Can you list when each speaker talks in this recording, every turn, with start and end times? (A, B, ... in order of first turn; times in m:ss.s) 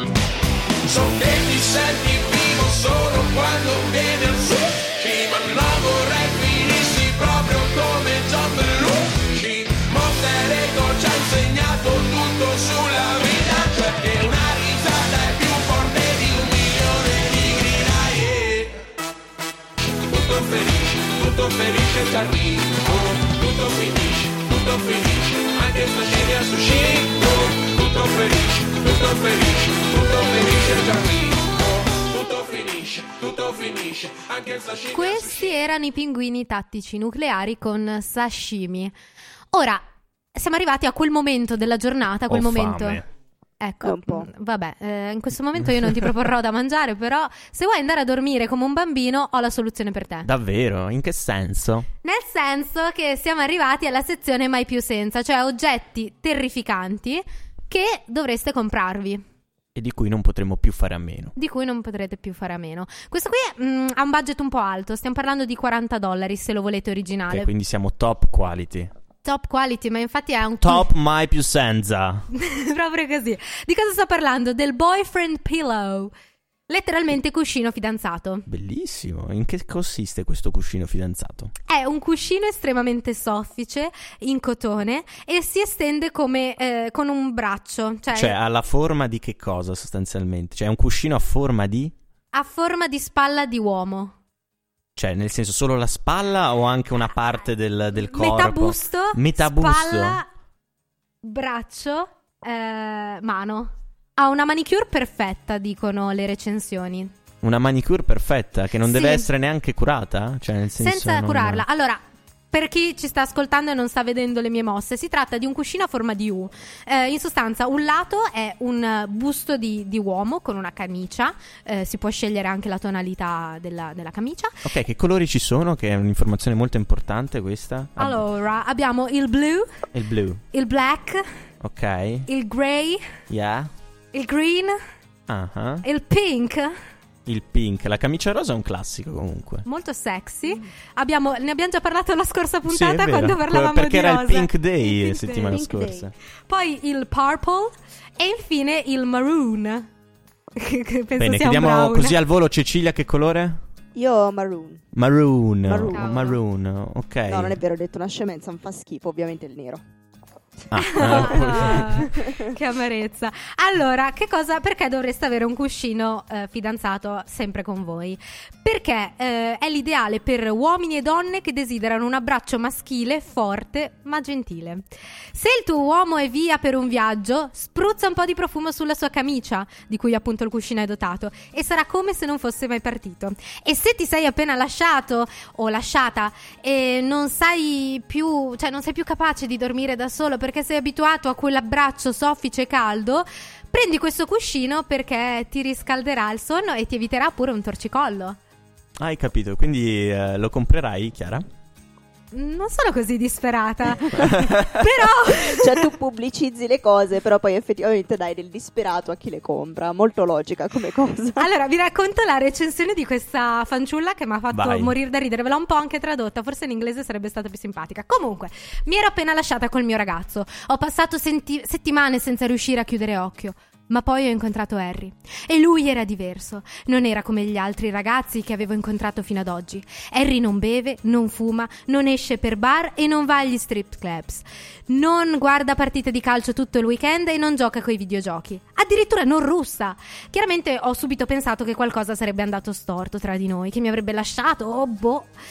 0:00.8-0:18.8 A
0:20.1-0:35.6 A
0:34.9-0:38.9 B
0:39.5-0:43.0 B
0:42.3-0:43.1 C
0:43.6-0:50.3 B
0:43.8-0:44.3 D
0:50.2-0:51.9 C
0:52.0-0:59.2 B
0:59.8-1:01.4 C
1:01.4-1:07.5 B
1:07.3-1:08.9 C
1:09.2-1:10.9 B
1:10.6-1:12.3 C
1:12.3-1:16.1 B
1:16.7-1:18.5 B
1:18.5-1:21.5 C
1:21.7-1:28.4 B
1:28.1-1:32.0 C
1:32.3-1:34.1 B
1:35.0-1:40.2 C
1:38.1-1:40.3 B
1:41.2-1:47.1 B
1:47.4-1:51.6 C
1:48.8-1:49.3 B
1:50.8-1:52.0 B
1:52.5-2:04.7 B
2:04.6-2:08.2 C
2:08.0-2:09.7 B
2:09.9-2:10.4 C
2:10.5-2:11.4 B
2:11.6-2:12.3 C
2:12.3-2:13.0 B
2:13.3-2:13.7 C
2:14.1-2:14.8 B
2:15.3-2:15.8 C
2:15.8-2:16.8 B
2:17.3-2:19.7 C
2:19.7-2:25.6 B
2:22.6-2:26.1 C
2:25.5-2:26.1 D
2:26.5-2:29.9 B
2:30.6-2:32.2 B
2:31.2-2:33.6 C
2:34.0-2:34.9 D
2:34.9-2:37.6 C
2:35.7-2:36.3 D
2:35.9-2:36.4 B
2:37.3-2:39.8 D
2:40.6-2:42.5 D
2:40.7-2:42.1 C
2:40.8-3:18.4 B
3:19.0-3:21.5 C
3:22.3-3:25.9 B
3:24.1-3:24.8 C
3:25.3-3:31.4 D
3:31.4-4:05.3 B
3:34.5-3:35.0 C